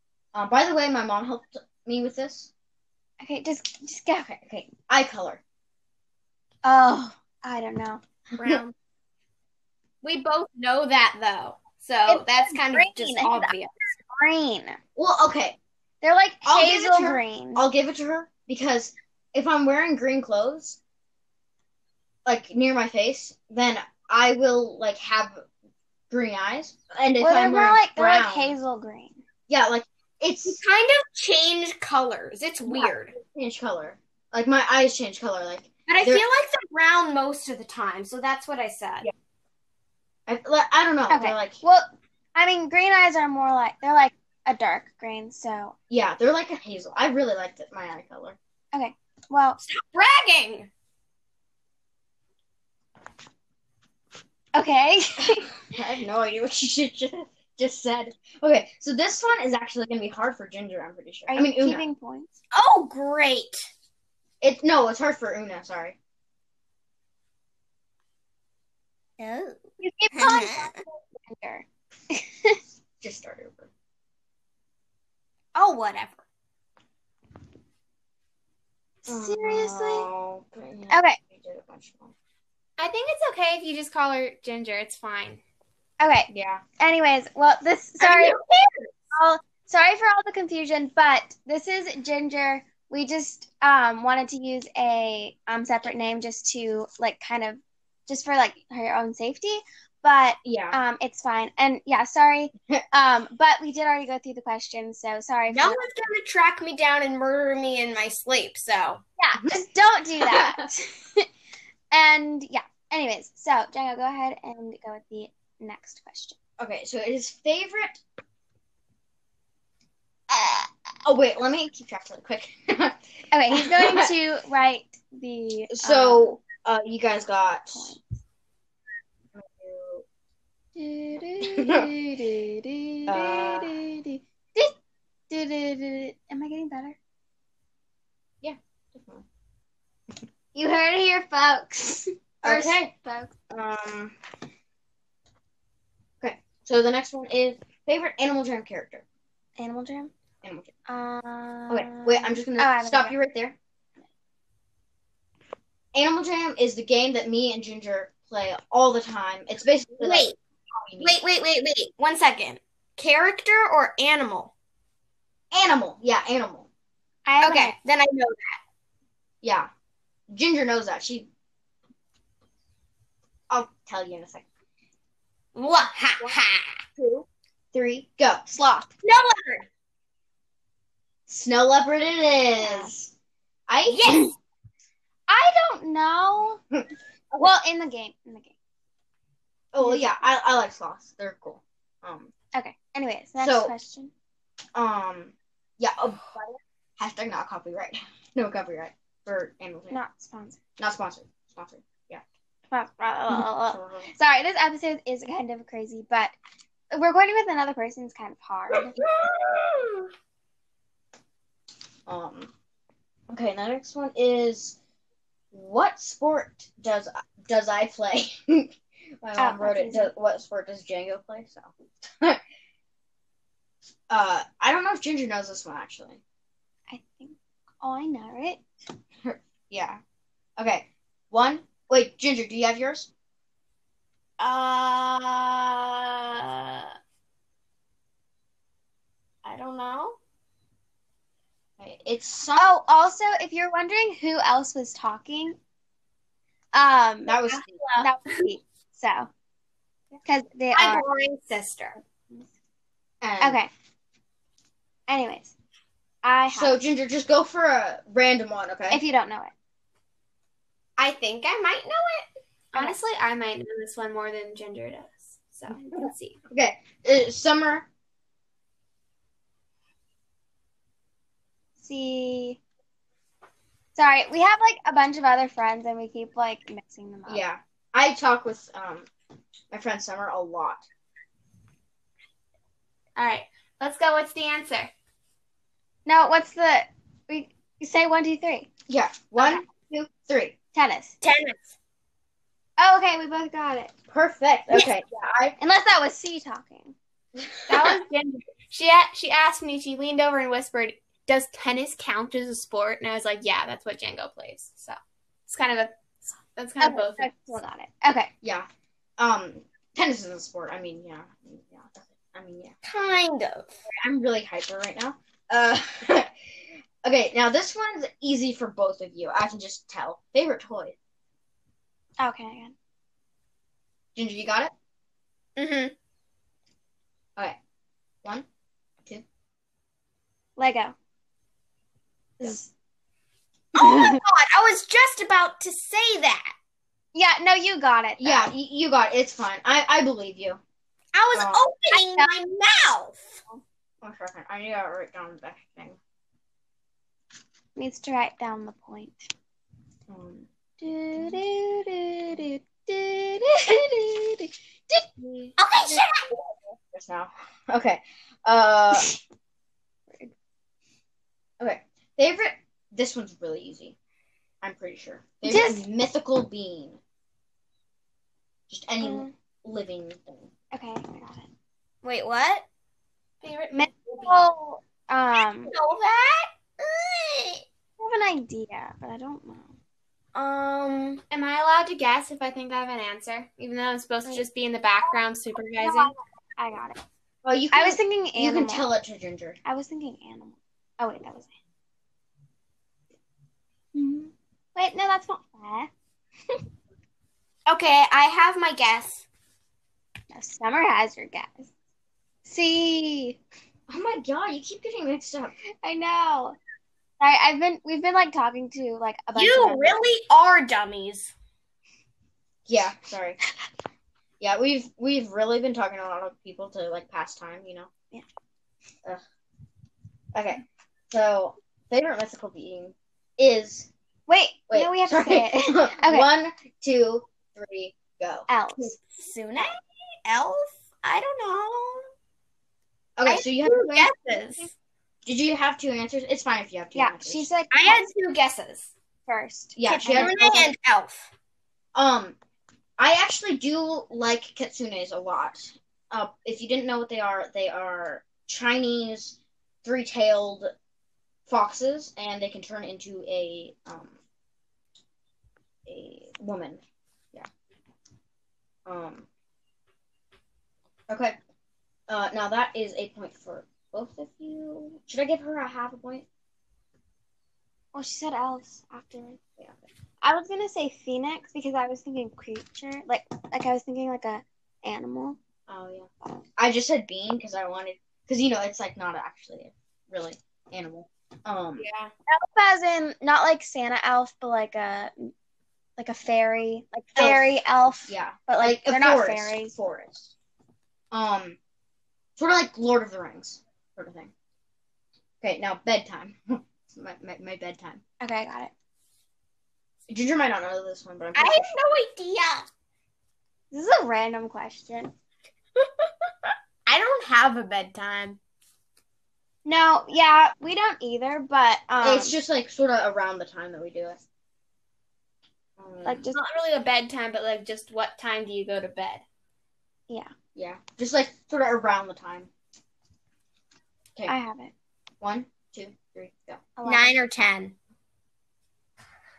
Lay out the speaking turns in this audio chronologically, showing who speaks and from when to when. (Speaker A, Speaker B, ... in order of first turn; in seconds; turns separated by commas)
Speaker A: 0.3-2.5, Speaker B: 3.2-4.3, Speaker A: 4.2-5.4, Speaker B: 6.6-8.0, Speaker C: 8.4-8.7, Speaker C: 10.0-13.7, Speaker B: 12.1-14.8, Speaker A: 14.9-15.6, Speaker B: 16.0-17.7, Speaker A: 16.4-20.8, Speaker A: 22.2-25.4, Speaker A: 26.1-28.6, Speaker B: 27.2-29.2, Speaker A: 29.5-30.6, Speaker C: 30.4-33.1, Speaker A: 33.1-36.2, Speaker C: 35.9-39.1, Speaker A: 40.3-41.6, Speaker B: 41.1-45.7, Speaker A: 45.9-48.4, Speaker B: 48.7-49.6, Speaker C: 49.6-50.7, Speaker B: 54.5-55.5, Speaker A: 55.7-61.8, Speaker B: 61.3-62.3, Speaker C: 62.5-63.7, Speaker A: 64.4-66.0, Speaker C: 69.2-70.8, Speaker B: 69.8-72.6, Speaker A: 73.0-73.7, Speaker C: 75.5-76.2, Speaker B: 79.0-80.1, Speaker A: 79.0-82.1, Speaker B: 80.9-81.2, Speaker C: 82.8-85.4, Speaker B: 86.0-88.3, Speaker A: 86.3-86.6, Speaker A: 88.0-88.7, Speaker B: 89.1-105.8, Speaker A: 100.4-100.8, Speaker C: 105.5-109.0, Speaker B: 109.2-111.3, Speaker A: 110.2-110.6, Speaker B: 111.9-116.3, Speaker A: 116.6-118.0, Speaker A: 120.3-123.0, Speaker B: 123.3-126.3, Speaker A: 123.5-124.1, Speaker A: 125.7-127.9, Speaker B: 127.8-128.0, Speaker A: 129.3-130.0, Speaker B: 130.8-134.7, Speaker A: 131.4-131.9, Speaker A: 133.1-133.8, Speaker B: 135.3-137.0, Speaker A: 138.4-139.2, Speaker B: 140.5-143.3, Speaker A: 142.4-142.9, Speaker A: 143.5-144.2, Speaker A: 146.2-149.0, Speaker B: 149.6-150.1, Speaker A: 150.4-150.7, Speaker B: 150.9-153.1, Speaker A: 151.7-153.6, Speaker A: 155.9-161.2, Speaker C: 160.0-160.3, Speaker C: 161.0-164.5, Speaker A: 165.5-166.7, Speaker B: 167.2-167.7, Speaker C: 167.4-168.6, Speaker A: 169.4-169.7, Speaker A: 170.3-171.3, Speaker A: 173.5-174.4, Speaker C: 175.5-176.8, Speaker A: 177.0-178.9, Speaker C: 179.0-179.7, Speaker A: 181.3-183.1, Speaker B: 182.6-182.9, Speaker A: 183.7-184.3, Speaker C: 183.9-184.3, Speaker B: 185.3-186.6, Speaker B: 187.4-188.5, Speaker A: 189.7-192.3, Speaker B: 189.8-190.3, Speaker B: 192.5-194.1, Speaker A: 193.4-193.7, Speaker A: 194.7-196.4, Speaker A: 197.0-200.0, Speaker B: 199.9-200.6, Speaker A: 200.8-202.2, Speaker B: 202.7-206.3, Speaker A: 203.3-204.1, Speaker B: 206.9-208.9, Speaker A: 208.7-210.1, Speaker A: 212.1-212.5, Speaker A: 213.3-214.8, Speaker A: 215.5-222.4, Speaker B: 219.4-220.1, Speaker A: 224.1-226.2, Speaker B: 226.9-228.6, Speaker A: 229.2-230.0, Speaker A: 230.6-233.1, Speaker C: 234.4-236.9, Speaker C: 239.4-240.2, Speaker A: 241.8-242.7, Speaker B: 242.6-245.6, Speaker B: 246.7-249.3, Speaker A: 247.2-247.8, Speaker C: 247.7-248.4, Speaker B: 250.2-251.0, Speaker C: 250.7-252.0, Speaker A: 253.2-253.6, Speaker B: 253.4-253.7, Speaker B: 255.1-255.5, Speaker B: 256.2-256.8, Speaker A: 256.5-259.0, Speaker B: 258.9-259.5, Speaker C: 261.0-266.4, Speaker B: 262.7-263.0, Speaker A: 266.5-267.9, Speaker B: 271.8-272.6, Speaker B: 273.9-277.4, Speaker A: 277.2-279.1, Speaker A: 279.7-280.8, Speaker C: 283.1-284.9, Speaker B: 286.1-288.7, Speaker A: 288.9-290.5, Speaker B: 289.4-289.6, Speaker B: 290.7-291.1, Speaker C: 291.2-291.7, Speaker B: 292.8-293.9, Speaker A: 294.1-295.6, Speaker B: 295.6-296.9, Speaker B: 297.7-297.9, Speaker C: 297.7-307.3, Speaker B: 306.8-308.3, Speaker A: 308.4-308.7, Speaker A: 309.2-312.7, Speaker C: 312.8-313.7, Speaker A: 314.0-320.9, Speaker B: 322.2-322.7, Speaker A: 324.1-324.7, Speaker C: 325.6-325.9, Speaker B: 330.6-330.9, Speaker B: 332.4-332.7, Speaker C: 333.8-336.5, Speaker B: 333.8-334.2, Speaker B: 337.1-338.5, Speaker A: 338.2-340.6, Speaker C: 341.1-343.4, Speaker A: 341.3-341.6, Speaker B: 341.9-342.3, Speaker A: 344.0-346.0, Speaker B: 347.7-349.3, Speaker A: 350.1-350.5, Speaker B: 350.8-356.0, Speaker C: 355.6-356.3, Speaker A: 356.9-359.1, Speaker A: 361.6-364.0, Speaker A: 364.6-367.0, Speaker B: 365.4-365.8, Speaker A: 368.7-370.5, Speaker B: 369.0-369.3, Speaker B: 370.7-371.5, Speaker C: 372.0-372.6, Speaker C: 373.4-374.4, Speaker B: 373.7-375.7, Speaker C: 375.6-377.6, Speaker B: 378.0-379.8, Speaker C: 380.3-386.1, Speaker B: 385.8-387.0, Speaker A: 387.4-389.6, Speaker B: 387.7-388.9, Speaker B: 389.6-391.5, Speaker B: 393.9-395.9, Speaker C: 397.7-399.2, Speaker B: 400.3-401.7, Speaker B: 402.4-403.4, Speaker A: 403.9-405.6, Speaker B: 405.8-406.6, Speaker B: 407.2-410.1, Speaker C: 409.3-411.3, Speaker A: 412.7-413.4, Speaker A: 414.4-417.9, Speaker A: 420.3-423.9, Speaker B: 424.3-426.3, Speaker A: 424.7-428.5, Speaker B: 428.5-429.0, Speaker C: 429.0-432.1, Speaker A: 433.2-434.4, Speaker C: 433.3-434.7, Speaker A: 435.2-437.5, Speaker B: 436.9-438.0, Speaker C: 437.7-438.9, Speaker B: 439.3-440.7, Speaker A: 439.8-440.5, Speaker C: 440.1-441.3, Speaker A: 441.9-442.4, Speaker A: 443.0-450.7, Speaker A: 451.5-454.1, Speaker A: 455.9-456.8, Speaker A: 458.9-459.3, Speaker A: 461.1-461.4, Speaker A: 462.1-466.2, Speaker B: 467.9-469.4, Speaker B: 470.2-475.4, Speaker A: 475.7-481.9, Speaker B: 481.8-485.3, Speaker B: 486.0-489.8, Speaker A: 487.1-487.4, Speaker A: 488.1-490.3, Speaker A: 491.1-491.6, Speaker A: 492.4-494.3, Speaker A: 495.4-498.0, Speaker B: 498.2-498.7, Speaker A: 500.1-501.7, Speaker C: 501.3-502.6, Speaker B: 503.7-505.1, Speaker C: 506.9-508.4, Speaker B: 509.6-512.4, Speaker A: 512.0-514.2, Speaker A: 515.8-516.3, Speaker B: 516.0-516.4, Speaker C: 516.3-519.2, Speaker A: 520.5-522.5, Speaker B: 524.3-524.7, Speaker A: 525.2-526.7, Speaker B: 526.8-527.2, Speaker C: 526.8-527.7